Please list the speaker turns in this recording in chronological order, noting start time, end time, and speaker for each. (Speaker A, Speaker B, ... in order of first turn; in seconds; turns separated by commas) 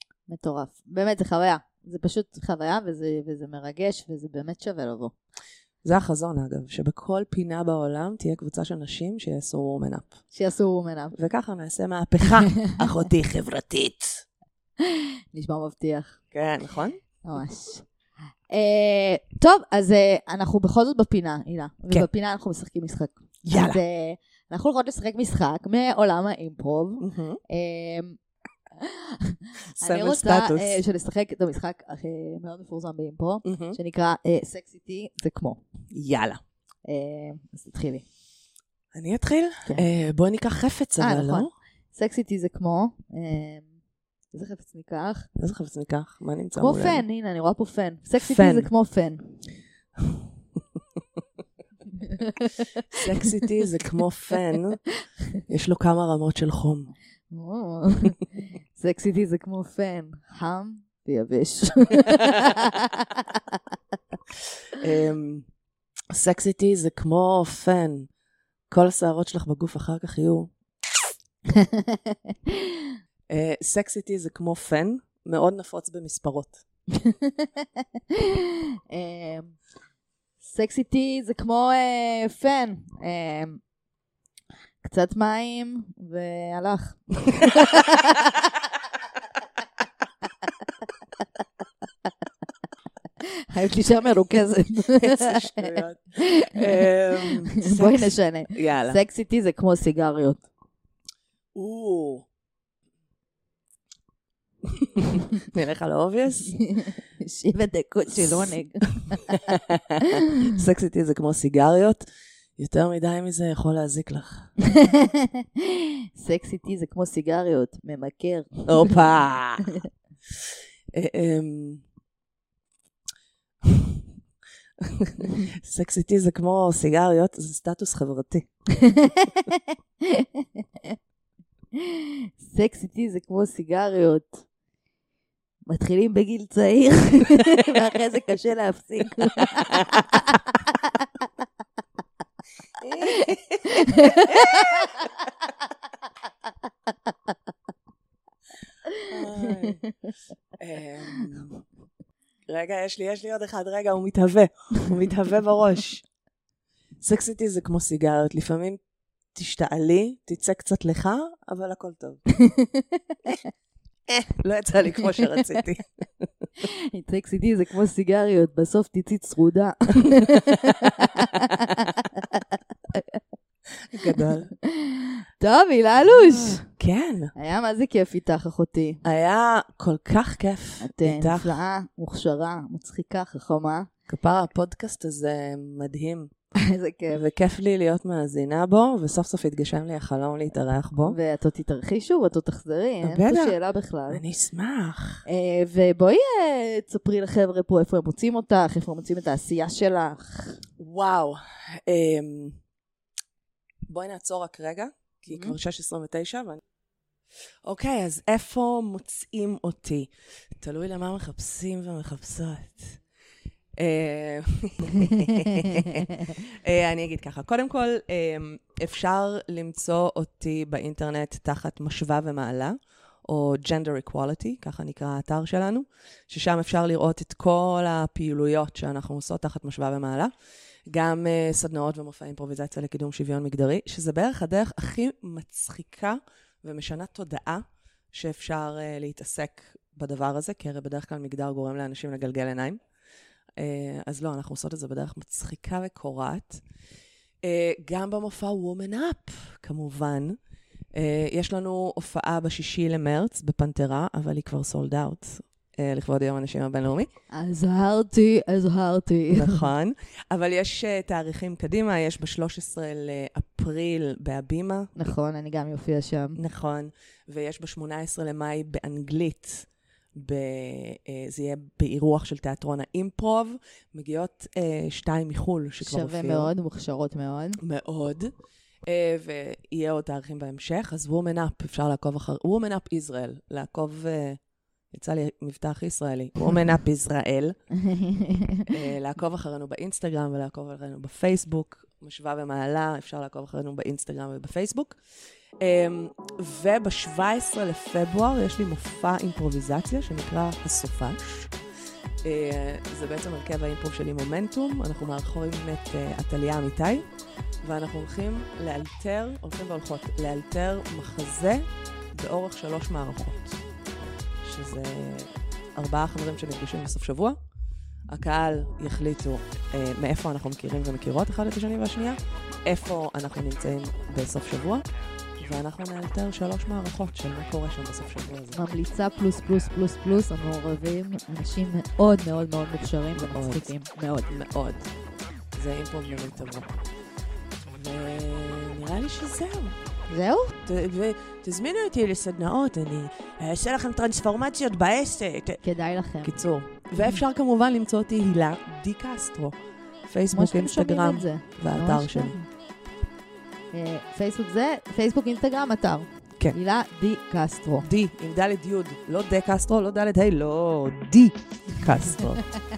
Speaker A: 0.3-5.1, Speaker B: 5.8-10.1, Speaker A: 10.3-11.2, Speaker B: 11.1-14.2, Speaker A: 14.8-16.2, Speaker B: 16.3-17.0, Speaker A: 17.2-17.9, Speaker A: 18.5-28.2, Speaker B: 23.4-23.8, Speaker B: 27.0-27.4, Speaker A: 28.8-35.6, Speaker B: 29.8-30.8, Speaker B: 33.4-33.8, Speaker B: 35.9-36.4, Speaker A: 36.8-38.0, Speaker B: 38.9-41.5, Speaker A: 41.0-43.6, Speaker A: 44.3-45.3, Speaker B: 45.4-47.0, Speaker A: 46.5-49.4, Speaker B: 48.2-48.7, Speaker A: 52.0-53.4, Speaker B: 52.9-54.8, Speaker B: 55.5-56.9, Speaker A: 57.3-63.6, Speaker B: 64.7-65.5, Speaker B: 66.1-68.1, Speaker B: 68.7-70.5, Speaker A: 71.5-72.8, Speaker B: 73.3-76.6, Speaker A: 77.0-79.5, Speaker A: 80.4-83.6, Speaker A: 84.8-88.2, Speaker A: 93.2-100.4, Speaker B: 95.0-99.0, Speaker B: 101.5-102.2, Speaker B: 104.6-106.5, Speaker A: 106.5-110.5, Speaker B: 108.2-108.5, Speaker B: 109.5-112.0, Speaker B: 112.6-114.5, Speaker A: 114.6-119.0, Speaker B: 118.7-119.7, Speaker B: 120.4-121.8, Speaker B: 123.6-124.0, Speaker B: 124.8-128.5, Speaker A: 128.7-130.9, Speaker A: 131.7-134.4, Speaker A: 135.7-140.9, Speaker B: 142.8-144.9, Speaker A: 143.2-145.0, Speaker A: 148.9-149.9, Speaker B: 149.1-149.8, Speaker B: 150.6-151.6, Speaker B: 152.5-156.0, Speaker B: 157.0-158.8, Speaker B: 159.3-162.2, Speaker A: 162.3-163.4, Speaker B: 164.1-166.3, Speaker A: 166.6-173.2, Speaker B: 170.0-171.4, Speaker B: 173.9-174.5, Speaker A: 174.0-176.6, Speaker B: 176.0-177.3, Speaker A: 177.3-179.0, Speaker B: 179.0-181.6, Speaker A: 180.8-183.9, Speaker B: 184.1-186.3, Speaker A: 186.6-187.2, Speaker B: 187.1-191.2, Speaker A: 191.1-194.2, Speaker B: 193.0-193.6, Speaker B: 194.1-195.2, Speaker A: 195.2-200.6, Speaker B: 200.8-202.6, Speaker B: 203.9-206.6, Speaker A: 205.3-205.6, Speaker B: 207.6-213.0, Speaker B: 213.8-230.3, Speaker A: 215.1-215.5, Speaker B: 230.9-242.8, Speaker B: 243.6-246.6, Speaker B: 247.4-250.4, Speaker B: 250.9-257.1, Speaker A: 257.3-259.6, Speaker B: 259.3-265.1, Speaker A: 264.9-266.4, Speaker B: 266.4-276.5, Speaker A: 275.8-277.6, Speaker B: 277.6-278.3, Speaker B: 278.8-284.4, Speaker B: 284.9-287.6, Speaker A: 287.8-288.7, Speaker B: 288.7-295.0, Speaker B: 295.6-301.5, Speaker B: 302.2-307.0, Speaker B: 307.6-317.4, Speaker B: 318.1-324.8, Speaker B: 325.4-328.6, Speaker A: 328.5-334.3, Speaker B: 333.2-333.7, Speaker B: 334.3-334.9, Speaker B: 335.5-336.7, Speaker B: 337.6-339.8, Speaker A: 340.1-340.5, Speaker B: 340.6-345.6, Speaker A: 345.6-346.4, Speaker B: 346.2-352.3, Speaker A: 350.3-352.5, Speaker A: 353.7-357.9, Speaker B: 357.8-362.4